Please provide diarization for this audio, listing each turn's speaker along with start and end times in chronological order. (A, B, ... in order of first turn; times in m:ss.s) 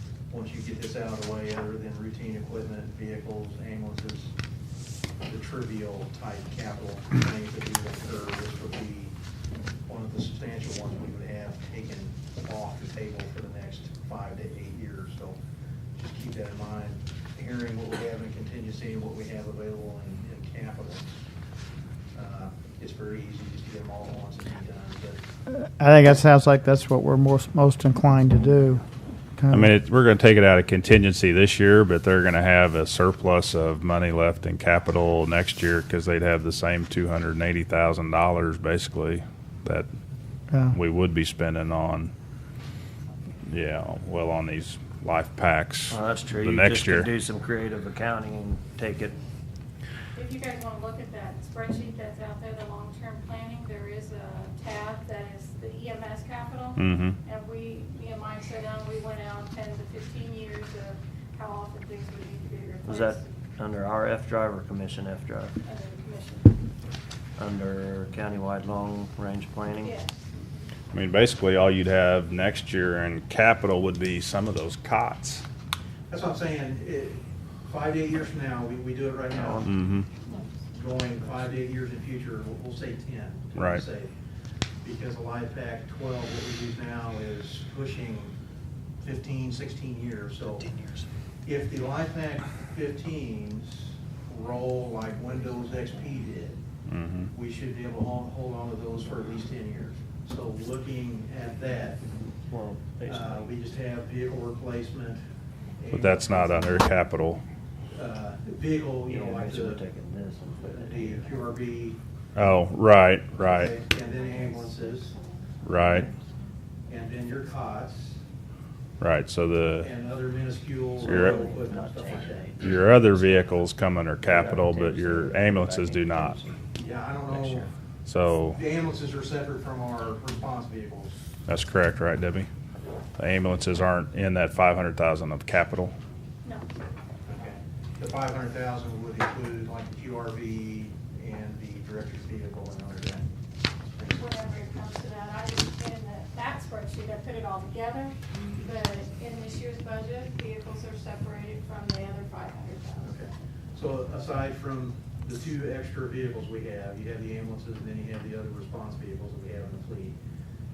0:00.3-0:04.3 A
0:05.2-0:09.2 A
0:09.9-0:15.4 A
0:16.0-0:21.1 A
0:22.1-0:25.2 A
0:25.5-0:28.8 B
0:29.4-0:29.7 B
0:29.5-0:39.9 C
0:40.7-0:42.1 C
0:43.4-0:47.1 C
0:45.9-0:49.2 D
0:50.2-1:03.3 E
0:56.8-0:57.2 C
1:02.8-1:05.6 D
1:05.6-1:06.6 E
1:07.4-1:09.9 D
1:09.8-1:10.2 E
1:10.9-1:15.4 C
1:16.1-1:19.7 A
1:19.3-1:19.7 D
1:19.6-1:20.1 C
1:20.7-1:24.1 A
1:23.6-1:23.8 C
1:24.8-1:28.3 A
1:29.0-1:30.7 A
1:31.4-1:36.6 A
1:36.9-1:37.3 C
1:37.3-1:42.0 A
1:42.5-1:43.6 D
1:43.1-1:45.2 A
1:45.8-1:47.0 A
1:45.9-1:47.4 C
1:47.9-1:49.8 A
1:49.1-1:51.4 D
1:50.6-1:52.0 A
1:52.3-1:53.7 C
1:53.4-1:55.1 A
1:55.6-1:56.1 C
1:56.9-1:58.2 A
1:59.0-1:59.9 C
1:59.8-2:02.5 A
2:01.0-2:03.7 D
2:01.1-2:01.4 C
2:02.6-2:06.4 C
2:04.2-2:06.6 D
2:06.8-2:07.7 A
2:07.3-2:07.7 D
2:08.1-2:08.6 C
2:08.5-2:11.1 A
2:11.5-2:12.5 C
2:13.2-2:15.9 C
2:17.2-2:23.3 A
2:23.8-2:24.2 A
2:24.1-2:33.1 E
2:33.0-2:40.2 A